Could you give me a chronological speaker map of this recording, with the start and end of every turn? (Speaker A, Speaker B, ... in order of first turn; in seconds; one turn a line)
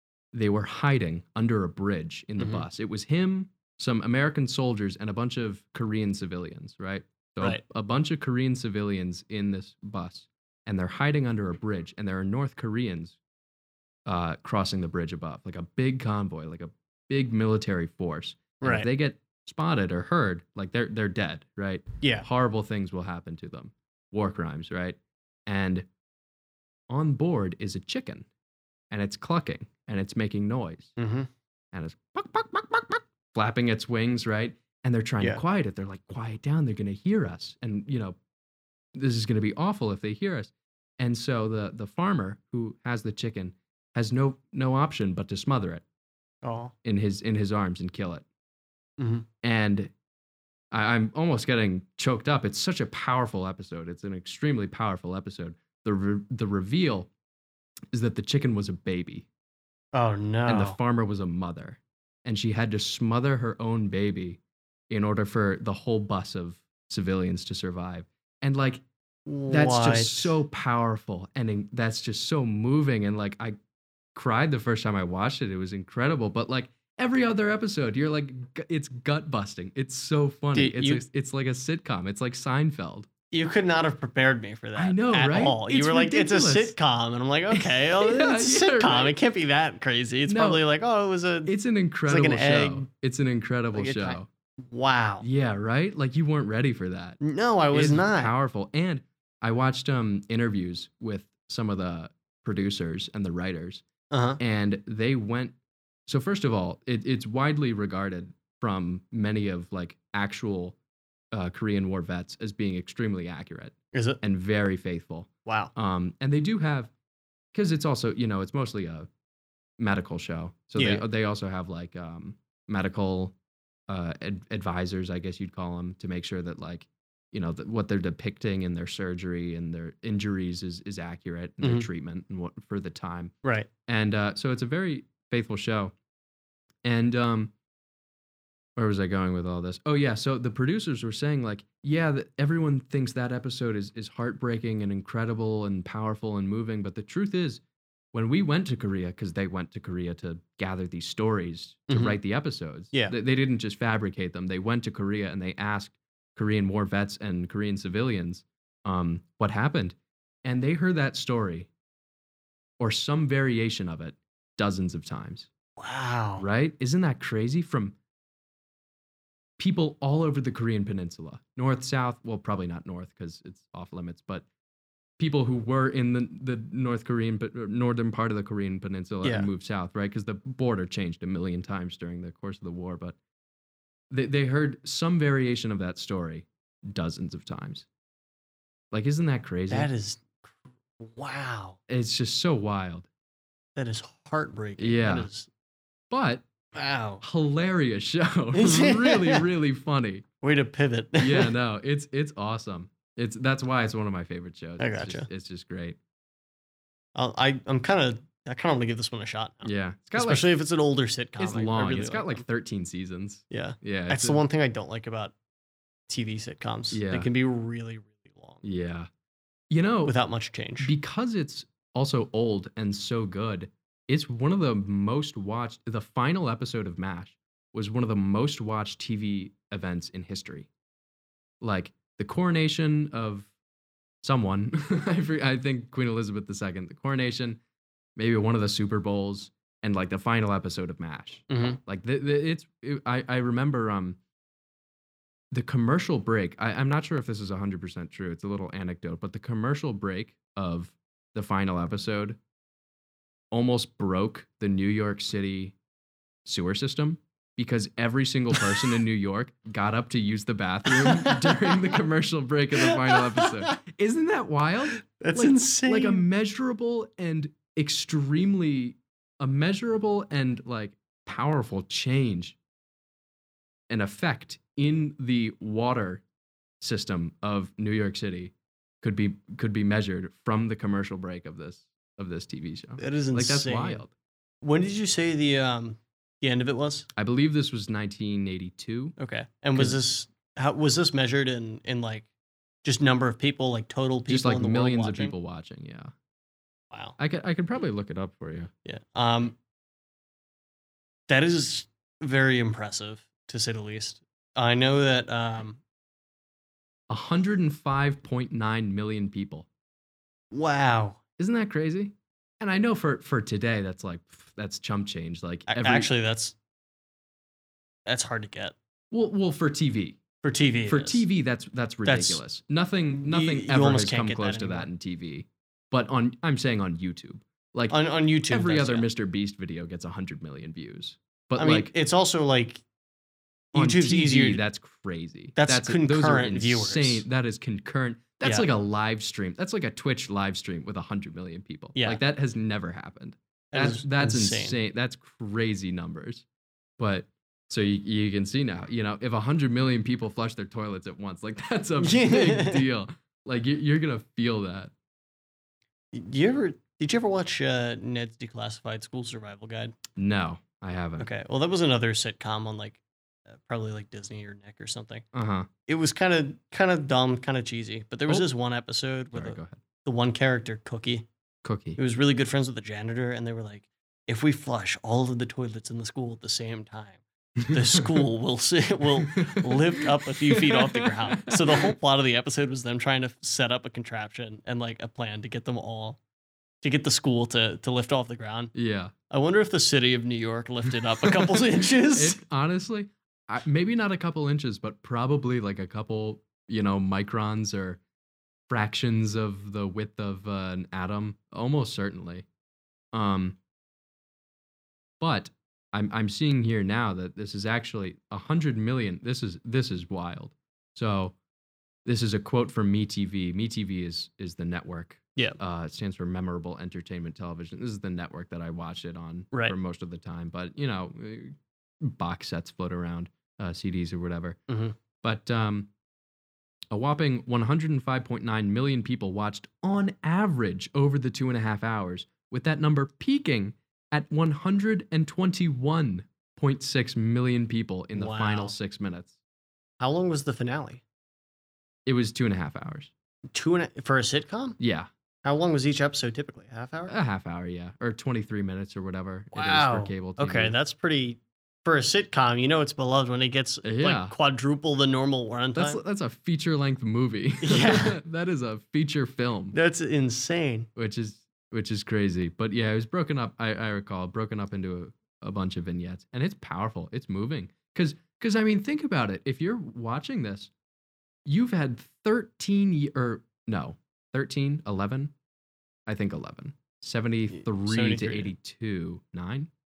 Speaker A: 0.3-13.2
Speaker B: 2.4-2.6
Speaker A: 14.1-25.9
Speaker B: 18.6-18.9
Speaker B: 22.0-22.3
Speaker A: 26.9-28.3
Speaker A: 28.9-30.9
Speaker B: 31.0-31.3
Speaker A: 31.7-38.2
Speaker A: 38.9-45.8
Speaker B: 46.4-46.7
Speaker A: 46.8-48.2
Speaker B: 49.0-49.3
Speaker A: 49.4-49.9
Speaker A: 50.7-57.1
Speaker A: 57.9-59.3
Speaker B: 59.9-60.8
Speaker A: 60.5-68.8
Speaker B: 69.3-70.4
Speaker A: 69.5-73.5
Speaker A: 74.1-83.1
Speaker B: 80.5-81.0
Speaker B: 83.3-91.5
Speaker A: 84.8-86.8
Speaker A: 87.5-89.2
Speaker A: 90.3-90.6
Speaker A: 91.5-94.3
Speaker B: 92.1-92.9
Speaker B: 93.7-95.3
Speaker A: 95.2-97.2
Speaker B: 97.2-98.3
Speaker A: 97.7-103.8
Speaker B: 104.1-104.4
Speaker A: 104.4-105.6
Speaker A: 106.1-110.8
Speaker A: 111.3-116.9
Speaker B: 113.9-114.2
Speaker B: 115.5-115.7
Speaker A: 117.5-119.1
Speaker A: 119.8-123.3
Speaker B: 120.8-121.0
Speaker A: 123.9-133.3
Speaker B: 131.6-131.9
Speaker B: 133.4-133.7
Speaker A: 133.9-135.9
Speaker A: 136.8-137.5
Speaker A: 138.8-147.6
Speaker A: 148.1-161.7
Speaker B: 151.9-152.2
Speaker A: 162.8-165.5
Speaker B: 165.8-166.5
Speaker A: 166.4-168.0
Speaker A: 169.6-174.5
Speaker A: 175.2-183.2
Speaker B: 179.2-179.5
Speaker A: 184.1-187.9
Speaker A: 188.9-189.9
Speaker B: 189.7-191.8
Speaker A: 191.9-193.1
Speaker B: 193.8-195.5
Speaker A: 194.8-195.3
Speaker A: 196.1-196.5
Speaker B: 196.7-197.2
Speaker A: 197.2-200.2
Speaker B: 198.5-199.5
Speaker B: 200.4-201.5
Speaker A: 201.2-206.0
Speaker B: 204.8-205.3
Speaker B: 207.1-212.4
Speaker A: 209.6-210.5
Speaker A: 211.4-214.4
Speaker B: 213.5-215.3
Speaker B: 216.1-218.6
Speaker A: 216.9-217.3
Speaker A: 218.6-219.1
Speaker A: 219.7-220.1
Speaker B: 220.1-220.9
Speaker A: 220.8-230.7
Speaker A: 231.6-233.5
Speaker A: 234.2-237.6
Speaker A: 238.2-244.2
Speaker B: 241.5-241.8
Speaker A: 245.5-252.4
Speaker A: 253.5-255.8
Speaker A: 256.4-272.6
Speaker B: 260.9-261.9
Speaker B: 262.8-263.8
Speaker B: 264.9-266.2
Speaker A: 273.9-276.2
Speaker A: 276.8-284.1
Speaker B: 283.0-284.0
Speaker B: 284.6-287.1
Speaker A: 287.1-289.1
Speaker B: 289.2-292.3
Speaker B: 292.8-295.3
Speaker A: 294.3-296.1
Speaker A: 297.2-298.7
Speaker B: 298.9-299.6
Speaker B: 301.3-305.8
Speaker A: 307.1-309.7
Speaker B: 310.5-311.2
Speaker A: 311.4-316.1
Speaker B: 315.7-316.6
Speaker B: 318.1-318.8
Speaker A: 319.1-320.2
Speaker B: 320.4-321.2
Speaker A: 320.9-331.9
Speaker B: 322.1-322.4
Speaker B: 323.1-324.9
Speaker B: 327.9-329.1
Speaker B: 331.6-332.8
Speaker B: 333.7-334.6
Speaker A: 333.8-346.4
Speaker B: 335.6-337.2
Speaker B: 338.4-338.7
Speaker B: 341.9-342.2
Speaker B: 343.7-344.8
Speaker A: 347.0-354.9
Speaker B: 352.0-352.8
Speaker B: 356.1-360.0
Speaker A: 360.1-361.3
Speaker B: 361.2-365.2
Speaker A: 365.3-365.7
Speaker B: 365.9-371.3
Speaker A: 369.3-369.8
Speaker A: 371.6-372.0
Speaker B: 372.0-386.2
Speaker A: 377.6-378.2
Speaker A: 379.2-381.9
Speaker B: 386.8-388.7
Speaker A: 388.7-389.1
Speaker B: 389.3-392.4
Speaker A: 391.2-398.0
Speaker A: 398.7-402.5
Speaker A: 403.1-403.6
Speaker A: 405.2-411.4
Speaker A: 412.0-424.6
Speaker B: 424.7-425.0
Speaker A: 425.2-425.9
Speaker A: 426.9-439.4
Speaker B: 438.1-438.8
Speaker B: 440.0-441.0
Speaker A: 442.1-443.1
Speaker B: 443.5-444.8
Speaker A: 444.8-445.1
Speaker B: 445.4-447.1
Speaker A: 447.1-450.8
Speaker B: 449.5-456.0
Speaker A: 453.8-454.4
Speaker A: 455.8-459.8
Speaker B: 457.6-458.2
Speaker B: 459.7-460.9
Speaker A: 461.0-470.7
Speaker A: 471.5-475.3
Speaker A: 476.1-479.7
Speaker B: 477.5-478.5